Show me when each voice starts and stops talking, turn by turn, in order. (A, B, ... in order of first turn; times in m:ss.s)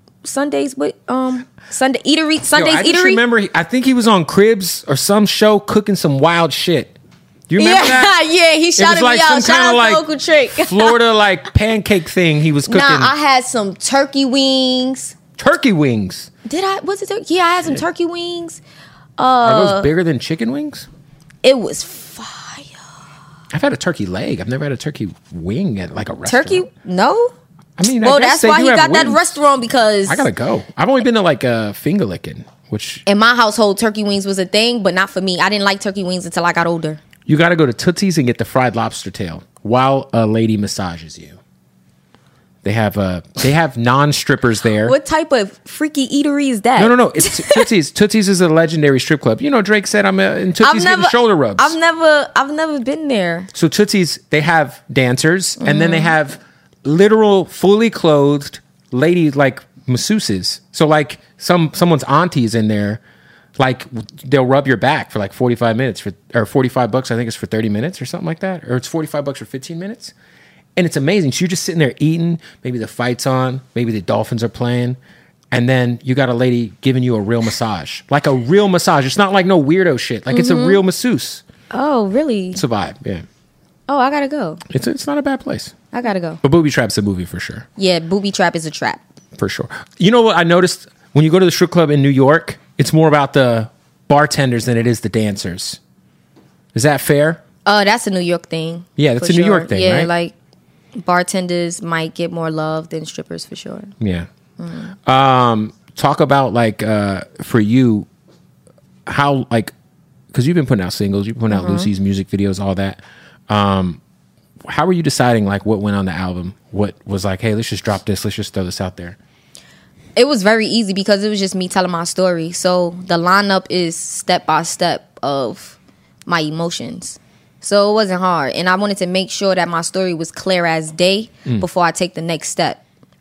0:00.2-0:03.2 A
0:02.5-0:07.0 B
0:07.5-0:08.2 B
0:07.6-0:11.0 A
0:08.8-0:13.1 B
0:12.7-0:15.2 A
0:15.4-0:16.3 B
0:16.5-0:18.6 A
0:19.2-0:19.9 A
0:19.4-0:20.9 B
0:21.4-0:22.7 A
0:23.5-0:26.6 B
0:26.2-0:27.3 A
0:27.8-0:29.4 B
0:28.0-0:30.3 A
0:30.1-0:33.0 B
0:33.1-0:37.0 A
0:37.3-0:41.4 B
0:42.6-0:45.0 B
0:44.8-0:47.7 A
0:46.8-0:51.8 B
0:50.6-0:53.5 A
0:53.5-1:03.0 B
0:55.6-0:56.1 A
1:03.6-1:10.1 B
1:10.8-1:15.0 B
1:15.5-1:21.4 B
1:20.3-1:20.8 A
1:21.7-1:22.6 A
1:22.6-1:23.2 B
1:23.9-1:24.6 A
1:24.7-1:25.7 B
1:25.9-1:26.4 A
1:26.4-1:27.7 B
1:27.8-1:29.0 A
1:29.4-1:35.8 B
1:36.7-1:37.4 B
1:37.6-1:40.3 A
1:39.0-1:40.1 B
1:41.0-1:43.9 A
1:44.0-1:44.3 B
1:44.6-1:45.0 A
1:45.1-1:48.1 B
1:49.1-1:49.7 B
1:50.3-1:54.0 B
1:51.5-1:51.9 A
1:54.6-1:59.2 B
2:00.2-2:12.8 A